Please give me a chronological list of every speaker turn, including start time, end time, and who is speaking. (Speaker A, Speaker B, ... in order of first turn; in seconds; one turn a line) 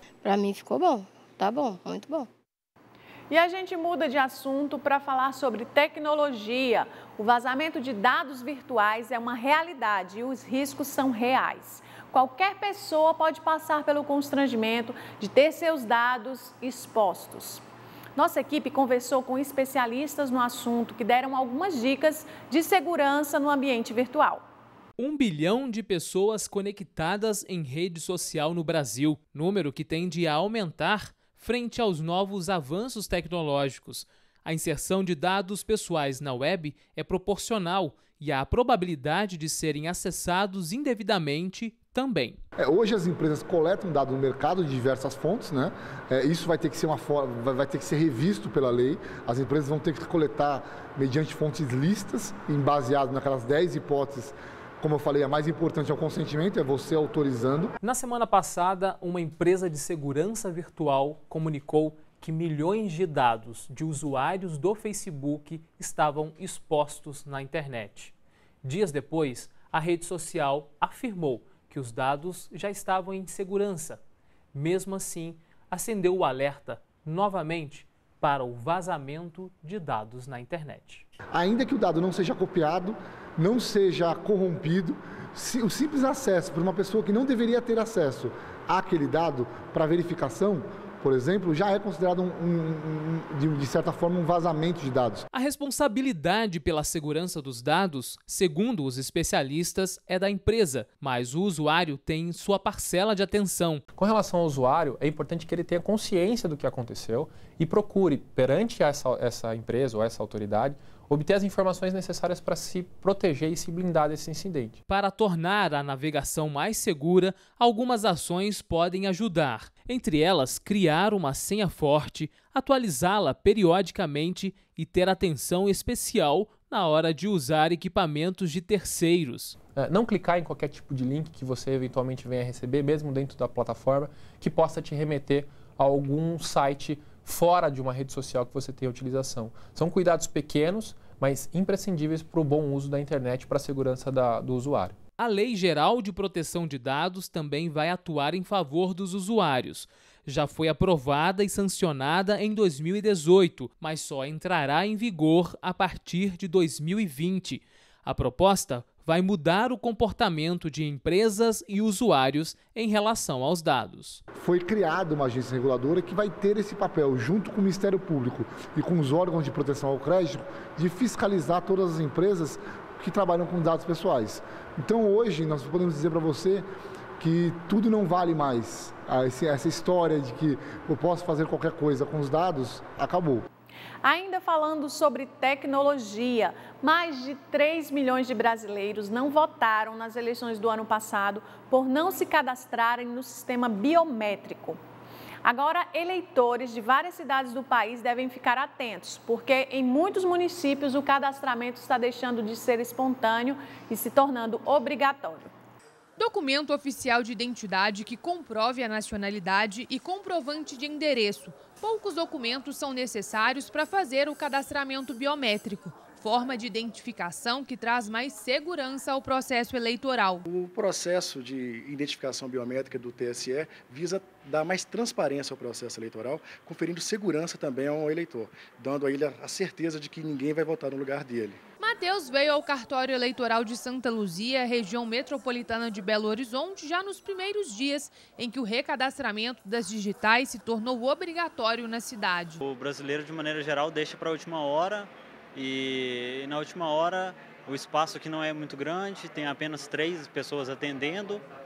Speaker A: 0.2-2.3
Speaker B: 3.3-17.6
Speaker B: 18.2-24.4
Speaker C: 25.0-42.4
Speaker D: 42.6-57.8
Speaker C: 57.8-68.1
Speaker C: 68.6-74.0
Speaker C: 74.5-81.0
Speaker D: 81.3-95.3
Speaker C: 95.3-103.9
Speaker E: 104.0-114.7
Speaker C: 114.9-129.6
Speaker E: 129.8-144.9
Speaker C: 145.2-164.2
Speaker D: 164.3-183.5
Speaker B: 184.0-194.8
Speaker B: 195.4-205.5
Speaker F: 206.2-220.4
Speaker G: 220.5-231.6
Speaker F: 231.8-242.6
Speaker H: 242.6-251.4